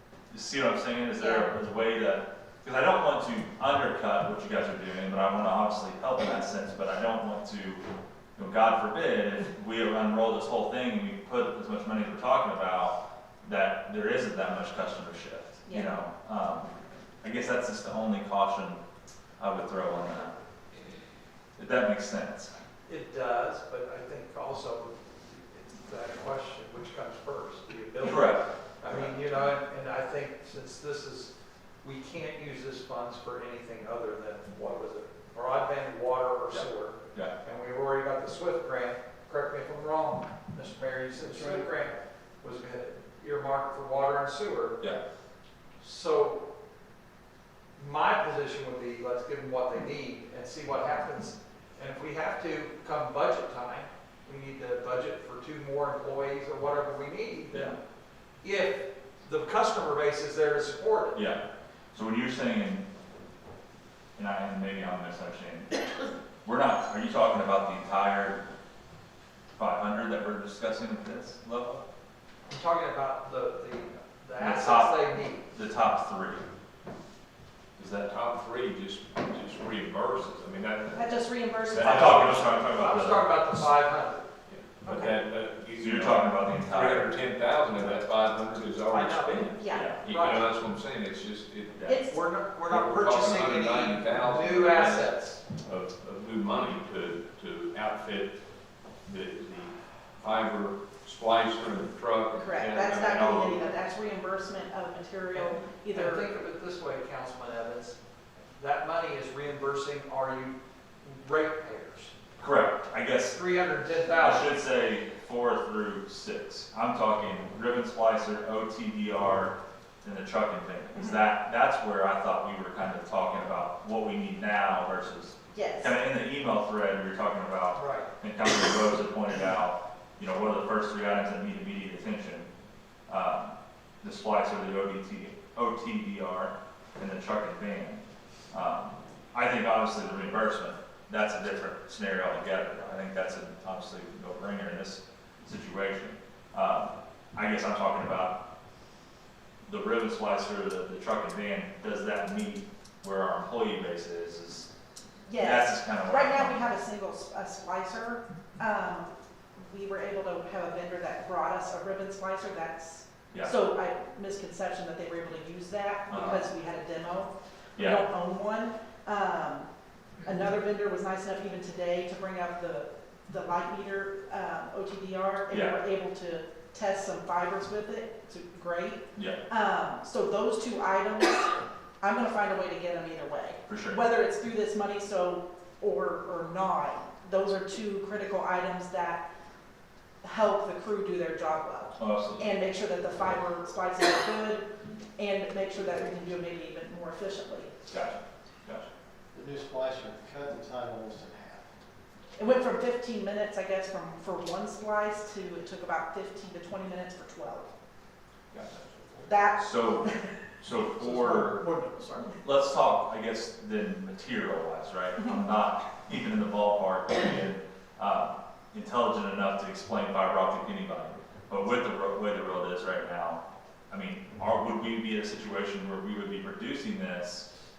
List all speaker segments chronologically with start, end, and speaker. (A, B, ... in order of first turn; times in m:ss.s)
0:00.3-0:07.8 A
0:01.2-0:01.5 B
0:08.4-0:16.7 A
0:15.7-0:16.0 B
0:17.2-0:18.8 A
0:19.4-0:20.3 A
0:21.6-0:22.5 A
0:22.8-0:31.3 C
0:28.0-0:29.1 A
0:31.8-0:44.9 C
0:36.5-0:37.3 A
0:45.8-0:46.4 C
0:47.8-0:57.7 C
0:58.4-1:01.2 C
1:01.1-1:01.4 A
1:01.9-1:02.8 A
1:04.2-1:05.7 A
1:06.4-1:08.4 A
1:09.6-1:11.8 A
1:12.5-1:15.4 C
1:14.4-1:16.4 A
1:17.8-1:18.1 A
1:18.0-1:21.1 D
1:20.9-1:22.1 B
1:21.7-1:22.6 D
1:21.8-1:23.6 A
1:22.1-1:24.3 C
1:24.5-1:31.9 D
1:24.8-1:25.1 B
1:25.8-1:27.2 A
1:28.9-1:30.5 C
1:29.6-1:29.9 B
1:29.7-1:30.0 A
1:31.8-1:32.0 A
1:31.9-1:32.2 B
1:32.1-1:35.4 C
1:32.7-1:38.4 D
1:39.0-1:43.7 D
1:42.3-1:46.3 B
1:45.3-1:48.0 C
1:48.6-1:52.1 C
1:52.4-1:53.4 A
1:53.3-1:54.5 C
1:54.1-2:12.5 A
2:01.0-2:01.2 B
2:05.5-2:05.9 B
2:07.8-2:08.1 C
2:13.1-2:28.4 A
2:29.7-2:34.7 A
2:35.3-2:49.7 B
2:35.4-2:36.6 A
2:46.1-2:46.5 A
2:47.8-2:48.0 A
2:50.2-3:09.3 B
2:55.5-2:55.8 A
3:03.7-3:04.0 A
3:10.2-3:17.7 B
3:12.0-3:12.5 A
3:17.9-3:18.9 A
3:19.3-3:21.7 E
3:22.4-3:27.7 B
3:28.7-3:29.3 D
3:29.3-3:30.3 B
3:29.6-3:31.6 A
3:31.0-3:32.4 C
3:32.4-3:47.5 A
3:35.2-3:35.5 B